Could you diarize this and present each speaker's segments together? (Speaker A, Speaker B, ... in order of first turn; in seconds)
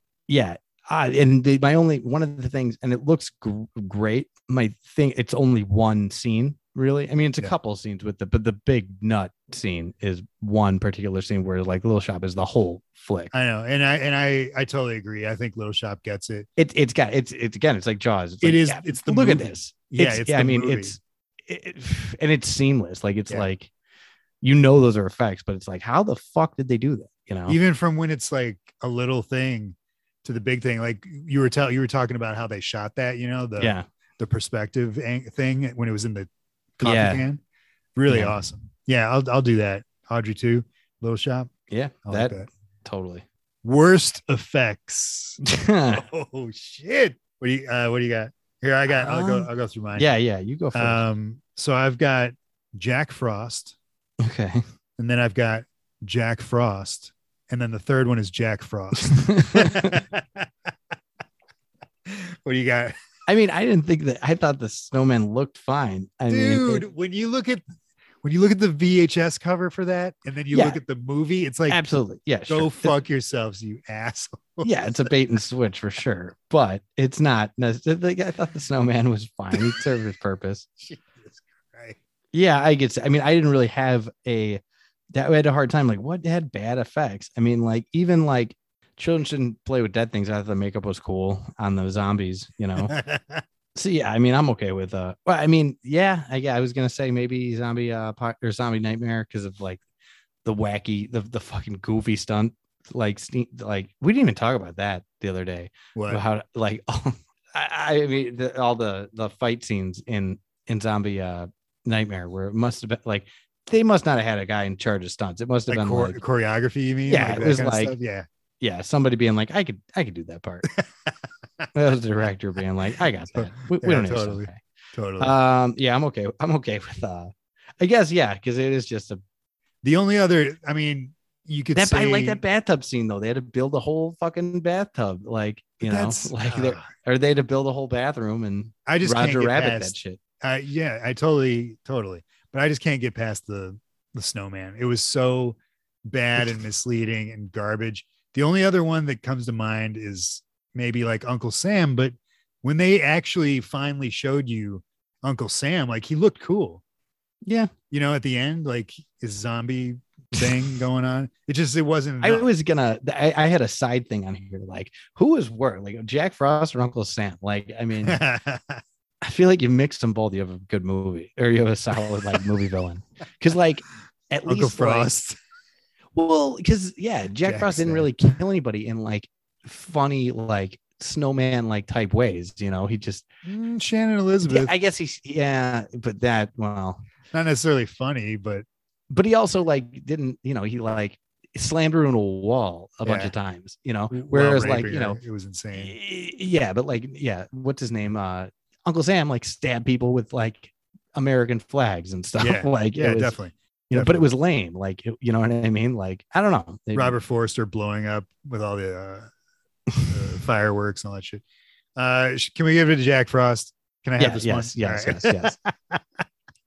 Speaker A: 0.3-13.3, 16.6-23.7, 24.4-27.6, 33.6-33.9, 36.8-37.2, 38.1-38.4, 41.7-43.2, 45.4-46.0, 48.9-51.0, 54.2-54.6, 59.0-60.0, 63.3-66.9, 70.5-70.8, 71.7-73.0, 74.6-80.7, 82.3-84.6, 85.1-93.0, 93.8-99.8, 100.4-116.2, 117.1-117.9, 118.6-120.7, 121.7-124.6, 125.2-129.2, 131.7-140.2, 157.4-157.7, 162.2-168.2, 169.2-175.1, 176.2-183.3, 184.5-187.0, 189.1-195.2, 195.7-203.4, 203.9-207.2, 209.9-210.3, 214.2-215.6
Speaker B: 13.3-16.5, 18.4-21.0, 27.5-36.3, 36.8-37.4, 38.0-41.5, 42.1-42.5, 43.6-45.4, 45.9-50.1, 50.7-53.8, 55.0-60.5, 62.1-63.0, 66.3-67.6, 68.2-71.8, 72.5-75.1, 80.8-82.0, 92.8-93.4, 106.0-106.2, 115.7-118.3, 123.3-125.3, 129.8-132.4, 135.8-136.8, 138.9-156.8, 157.9-162.5, 168.0-168.8, 174.5-175.4, 177.4-178.1, 183.4-184.7, 187.3-188.7, 193.1-193.3, 194.1-195.9, 202.4-204.3, 206.9-209.3, 210.1-211.4, 212.0-216.0